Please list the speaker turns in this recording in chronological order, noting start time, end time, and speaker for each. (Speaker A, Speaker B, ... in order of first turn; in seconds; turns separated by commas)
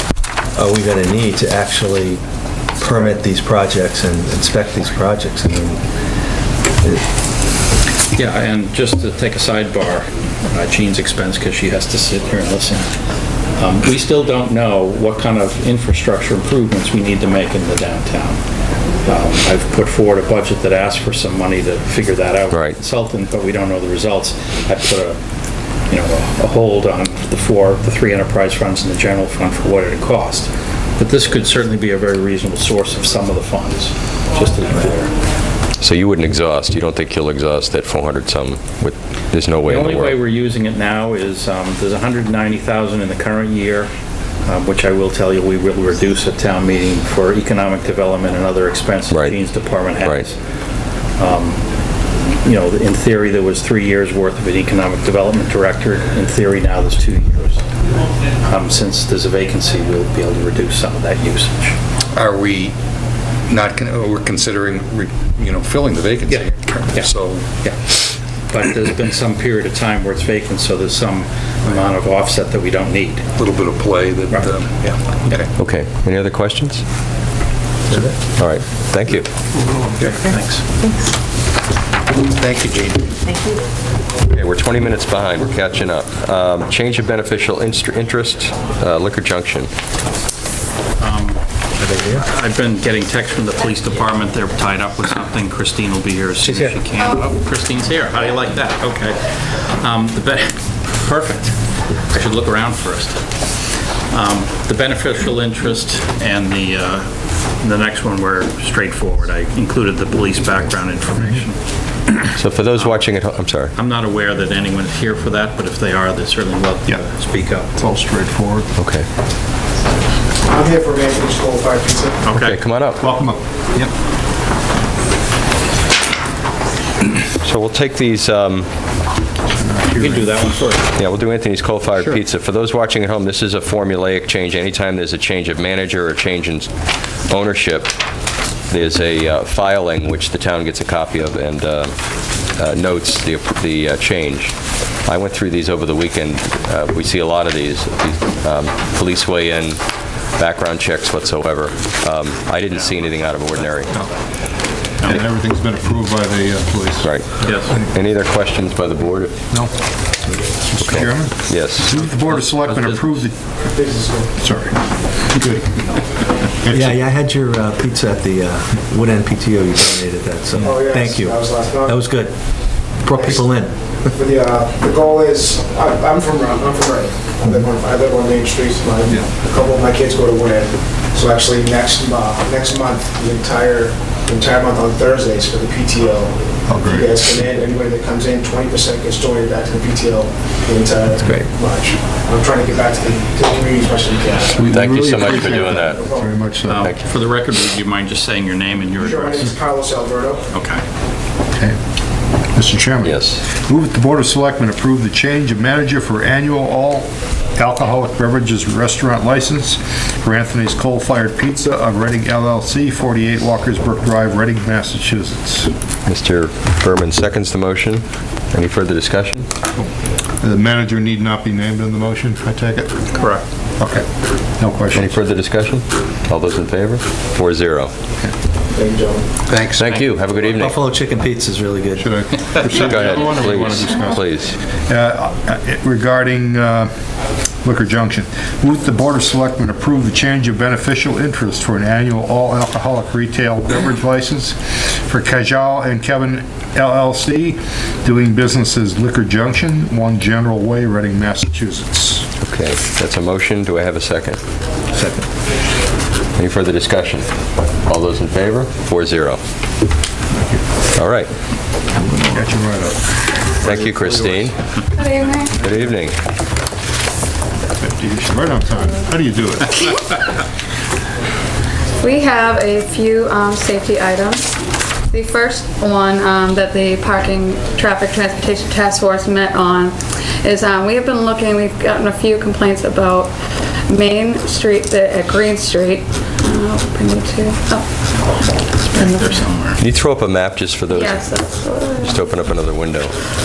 Speaker A: 0.6-2.2, Speaker A: 2.8-5.8, Speaker B: 8.2-12.9, Speaker B: 13.6-18.4, Speaker B: 19.1-25.2, Speaker C: 22.5-22.8, Speaker B: 25.9-35.1, Speaker C: 35.8-40.2, Speaker B: 39.6-43.9, Speaker B: 44.5-50.4, Speaker B: 51.2-51.6, Speaker B: 52.4-57.6, Speaker B: 58.4-61.8, Speaker D: 62.2-62.8, Speaker D: 63.5-67.5, Speaker B: 66.3-67.8, Speaker B: 68.5-73.3, Speaker D: 73.4-75.5, Speaker C: 75.6-76.8, Speaker C: 78.4-79.3, Speaker B: 80.0-80.7, Speaker D: 82.4-83.2, Speaker C: 84.3-89.7, Speaker B: 91.0-91.4, Speaker A: 91.8-92.2, Speaker B: 92.2-101.6, Speaker A: 96.4-96.8, Speaker B: 102.1-103.6, Speaker B: 104.1-111.6, Speaker C: 112.3-113.7, Speaker B: 112.8-113.1, Speaker B: 113.8-117.7, Speaker E: 117.7-118.7, Speaker C: 118.8-119.1, Speaker F: 120.5-122.3, Speaker B: 122.2-122.6, Speaker C: 122.3-123.0, Speaker E: 123.0-123.4, Speaker C: 127.4-128.7, Speaker E: 129.5-130.4, Speaker B: 130.0-130.9, Speaker C: 131.0-136.7, Speaker C: 137.3-138.0, Speaker C: 138.7-141.9, Speaker C: 142.6-144.5, Speaker C: 145.1-149.8, Speaker C: 150.4-153.9, Speaker B: 152.7-154.2, Speaker E: 155.0-157.9, Speaker C: 157.0-159.4, Speaker B: 157.4-157.8, Speaker E: 160.2-163.4, Speaker C: 160.9-161.9, Speaker B: 162.1-163.2, Speaker F: 163.6-164.3, Speaker E: 164.4-164.8, Speaker E: 165.3-165.8, Speaker E: 166.6-166.9, Speaker A: 166.7-172.3, Speaker F: 170.6-172.0, Speaker A: 173.0-173.8, Speaker F: 173.1-173.5, Speaker F: 174.1-194.7, Speaker E: 186.7-187.1, Speaker E: 194.6-196.9, Speaker C: 194.6-196.0, Speaker F: 195.5-196.3, Speaker B: 196.6-199.5, Speaker F: 199.0-200.5, Speaker B: 200.5-200.8, Speaker E: 202.6-215.7, Speaker C: 203.0-203.4, Speaker C: 216.1-219.5, Speaker E: 220.4-223.0, Speaker E: 223.8-224.1, Speaker E: 224.6-225.2, Speaker C: 224.9-227.9, Speaker F: 228.7-229.3, Speaker D: 229.5-230.1, Speaker C: 229.7-230.8, Speaker A: 230.6-232.2, Speaker E: 232.0-234.2, Speaker C: 232.7-234.6, Speaker E: 234.9-236.9, Speaker E: 237.6-252.3, Speaker C: 252.4-254.4, Speaker E: 254.9-255.2, Speaker C: 256.4-257.3, Speaker C: 257.9-259.4, Speaker E: 260.3-260.6, Speaker C: 261.0-261.3, Speaker E: 262.0-264.5, Speaker C: 263.6-264.6, Speaker G: 264.9-265.6, Speaker C: 265.6-266.1, Speaker E: 267.8-269.9, Speaker G: 272.0-274.5, Speaker G: 275.1-283.3, Speaker G: 283.9-289.5, Speaker B: 288.9-289.8, Speaker C: 289.8-291.4, Speaker G: 290.9-292.3, Speaker C: 291.9-293.1